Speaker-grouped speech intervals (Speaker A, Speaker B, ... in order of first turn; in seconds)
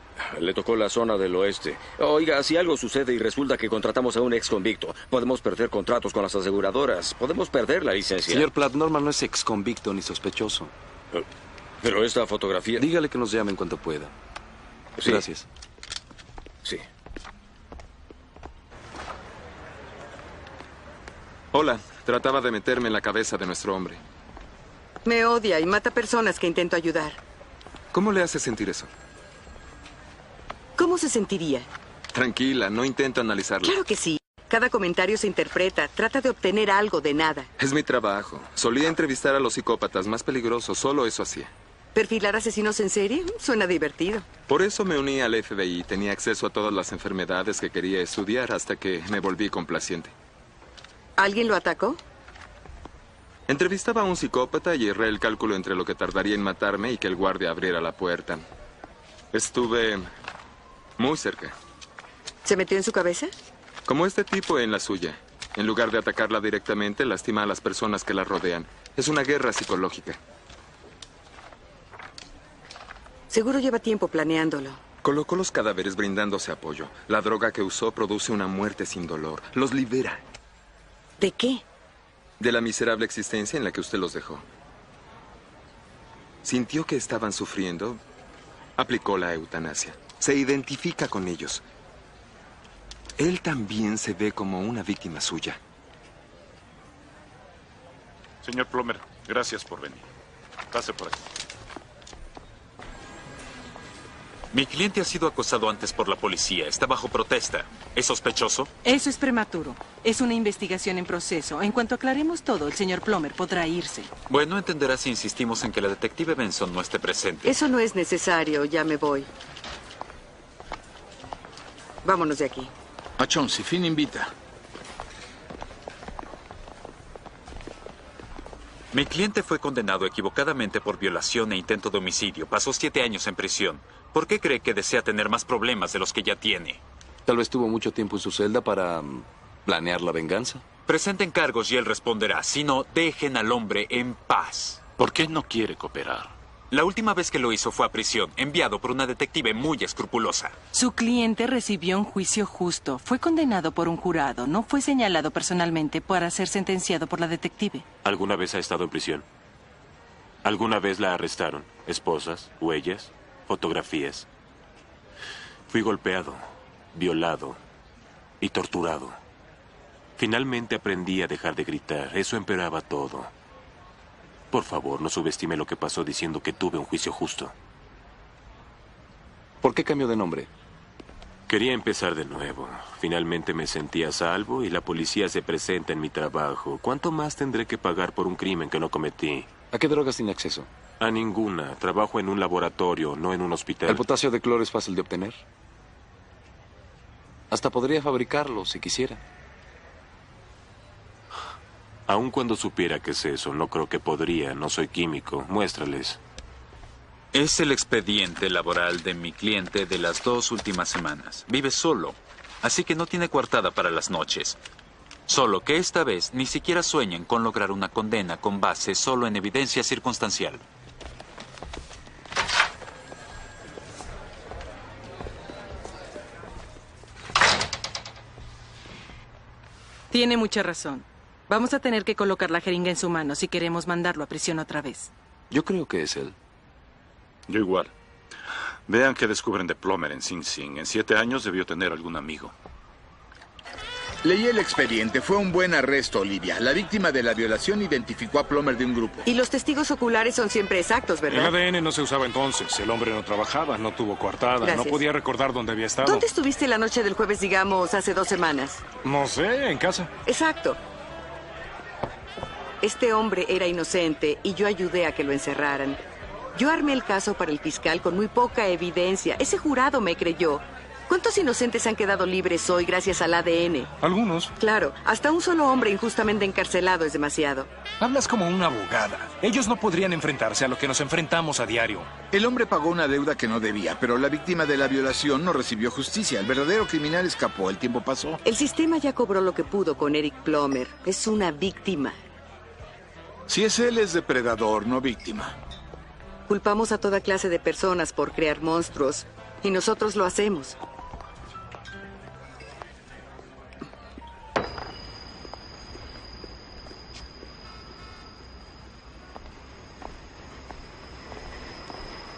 Speaker A: 0.2-8.5, 11.8-12.8, 15.0-15.2
Speaker B: 8.3-10.7, 12.8-14.1, 15.0-15.4, 137.2-140.6, 179.6-180.5, 189.7-190.7, 193.9-195.4, 197.5-199.2, 235.5-236.3
Speaker C: 21.5-24.0, 27.9-28.9, 32.1-33.7, 37.6-41.4, 44.5-50.1, 53.5-58.4, 59.3-60.0, 61.0-61.5, 63.9-70.1, 75.0-80.0, 82.4-84.4, 86.5-88.0, 88.8-91.6, 93.2-95.5
Speaker D: 25.0-27.2, 30.8-31.7, 33.6-37.5, 41.9-44.3, 51.2-52.0, 62.4-63.3, 73.3-74.8, 81.2-81.6, 117.4-119.3, 122.0-122.7, 249.2-251.5, 254.6-255.0, 256.0-258.8, 260.2-260.8, 262.8-266.0, 266.5-273.9, 274.6-277.7, 288.4-292.2, 296.5-300.8
Speaker E: 98.4-100.1, 100.7-101.2, 145.0-146.3, 237.5-237.9, 238.9-242.5
Speaker F: 104.5-108.7, 114.3-117.5, 128.9-136.8, 140.9-144.8, 146.7-150.6, 207.3-214.6, 215.3-220.6
Speaker G: 108.8-114.1, 150.7-157.8, 230.1-235.1
Speaker H: 123.2-124.3, 244.2-249.2, 282.3-288.4, 293.5-295.6
Speaker I: 158.0-159.2, 160.4-164.3, 165.7-166.4, 166.9-167.6, 168.4-169.2, 170.2-173.3, 174.5-177.5, 181.5-189.5, 191.0-194.0, 202.1-206.2
Speaker J: 251.3-256.2, 259.0-260.1, 274.0-274.5, 278.0-282.1